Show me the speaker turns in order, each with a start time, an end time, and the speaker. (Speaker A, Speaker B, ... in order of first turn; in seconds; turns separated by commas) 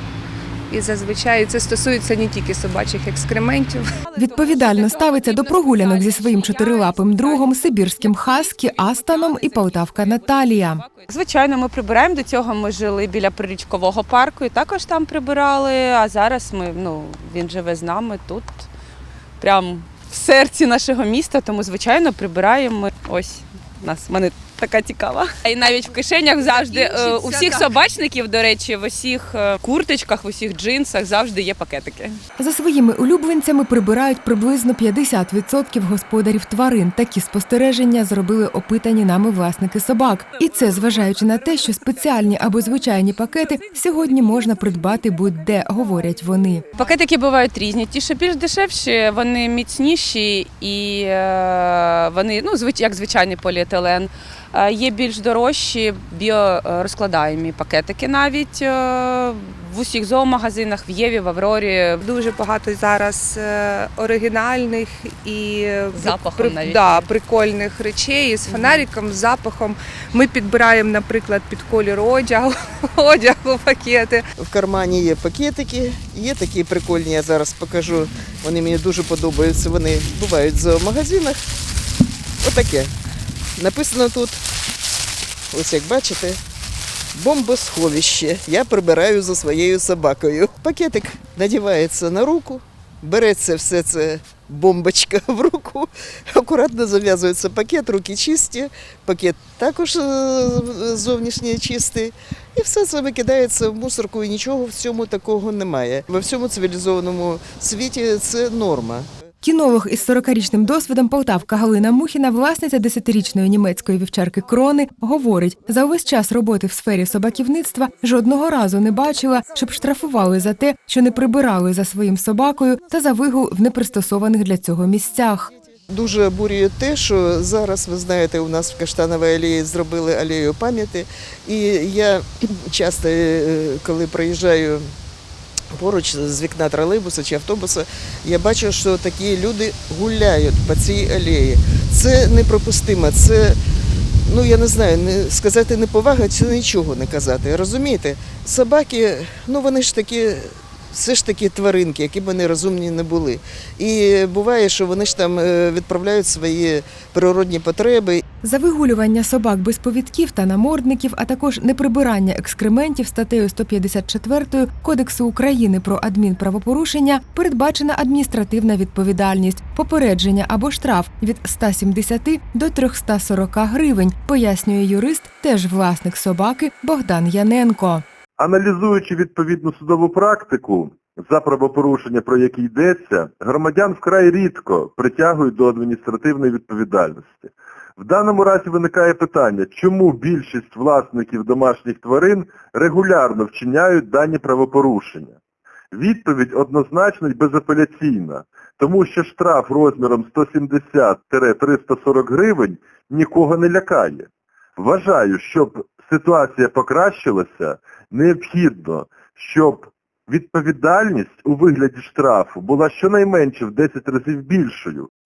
Speaker A: 0.7-3.9, Speaker B: 4.1-10.8, Speaker C: 4.1-18.7, Speaker C: 19.4-32.2, Speaker A: 26.6-27.6, Speaker B: 32.4-46.7, Speaker C: 46.7-62.0, Speaker A: 62.0-74.2, Speaker C: 65.9-67.1, Speaker C: 68.5-68.8, Speaker D: 74.4-81.4, Speaker D: 82.4-82.9, Speaker D: 83.6-84.4, Speaker D: 85.5-86.4, Speaker D: 87.1-109.1, Speaker B: 109.4-125.5, Speaker D: 125.9-134.9, Speaker D: 135.7-143.6, Speaker D: 144.2-158.2, Speaker B: 158.4-178.0, Speaker E: 178.4-195.4, Speaker E: 195.9-215.1